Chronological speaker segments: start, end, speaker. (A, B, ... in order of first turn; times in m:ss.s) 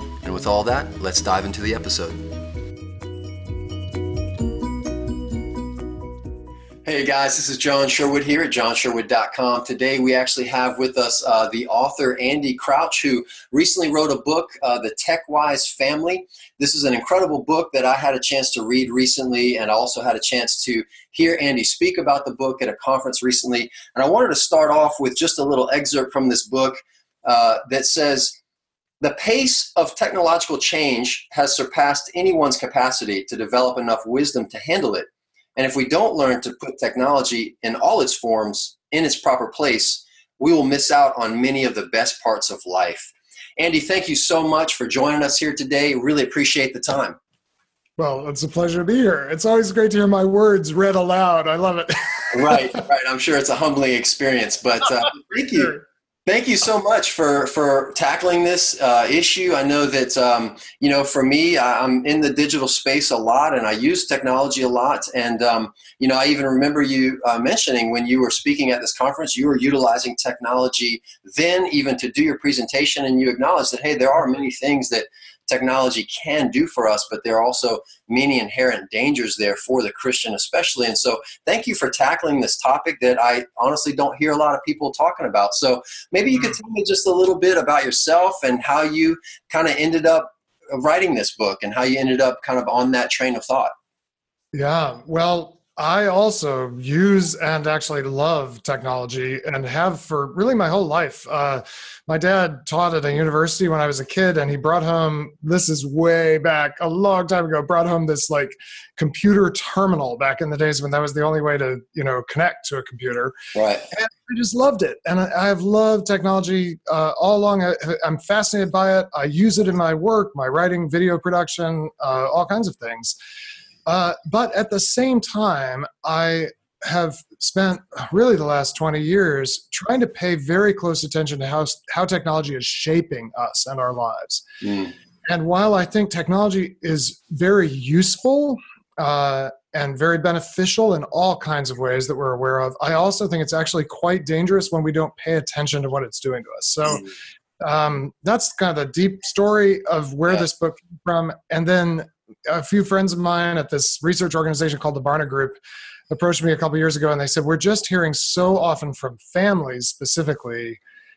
0:00.2-0:02.2 A
0:06.8-0:28.3 A
0:29.0-0:47.2 A
0:48.0-0:52.8 B
0:52.3-1:33.7 A
1:34.5-1:53.3 B
1:53.5-1:53.9 A
1:53.9-2:03.2 B
2:03.8-2:14.4 B
2:14.6-2:14.9 A
2:15.3-2:27.1 B
2:27.6-2:40.8 B